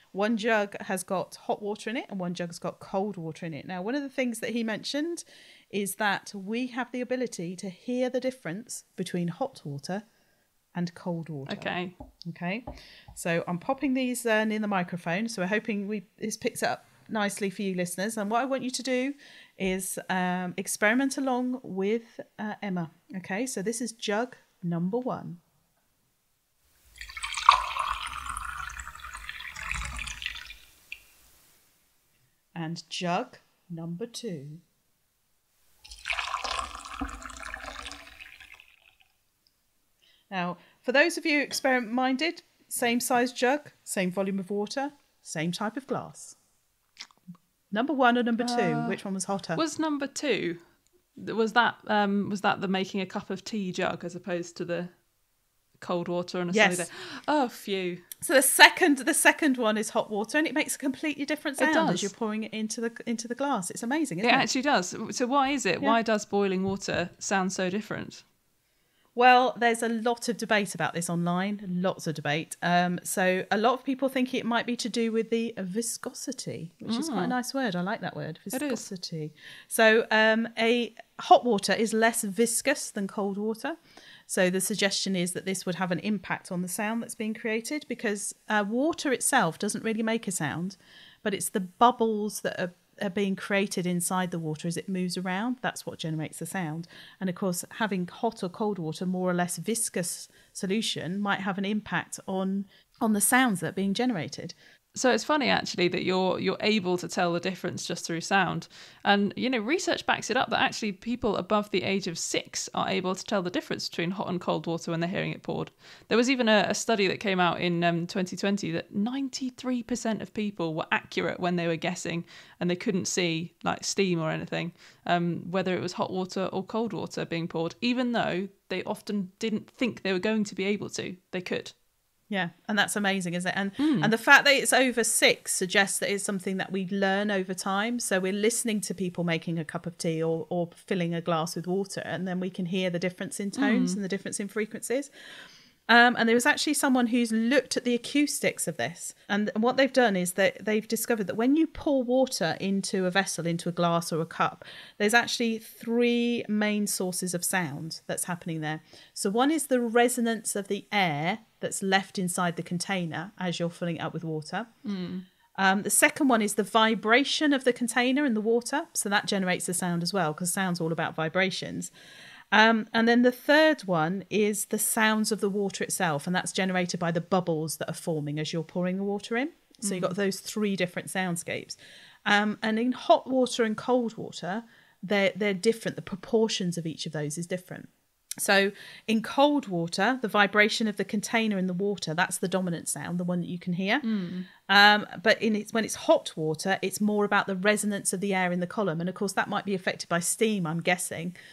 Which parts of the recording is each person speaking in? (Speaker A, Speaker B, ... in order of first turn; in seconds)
Speaker A: 0.1-10.0, 10.7-11.8, 12.3-25.4, 32.5-34.6, 40.3-46.4, 47.7-49.6, 56.5-56.9, 58.2-64.5, 69.2-83.8, 84.3-104.5, 132.3-145.1, 145.9-164.7, 165.6-171.9, 172.5-187.9, 188.4-194.1, 194.7-201.3
Speaker B: 11.5-11.9, 48.4-49.0, 49.5-50.6, 51.1-55.0, 55.8-58.0, 61.6-62.1, 64.2-68.2, 76.9-77.3, 78.5-78.8, 104.9-131.7, 133.8-134.1, 143.5-144.0, 164.8-165.2, 179.8-180.2, 194.0-194.5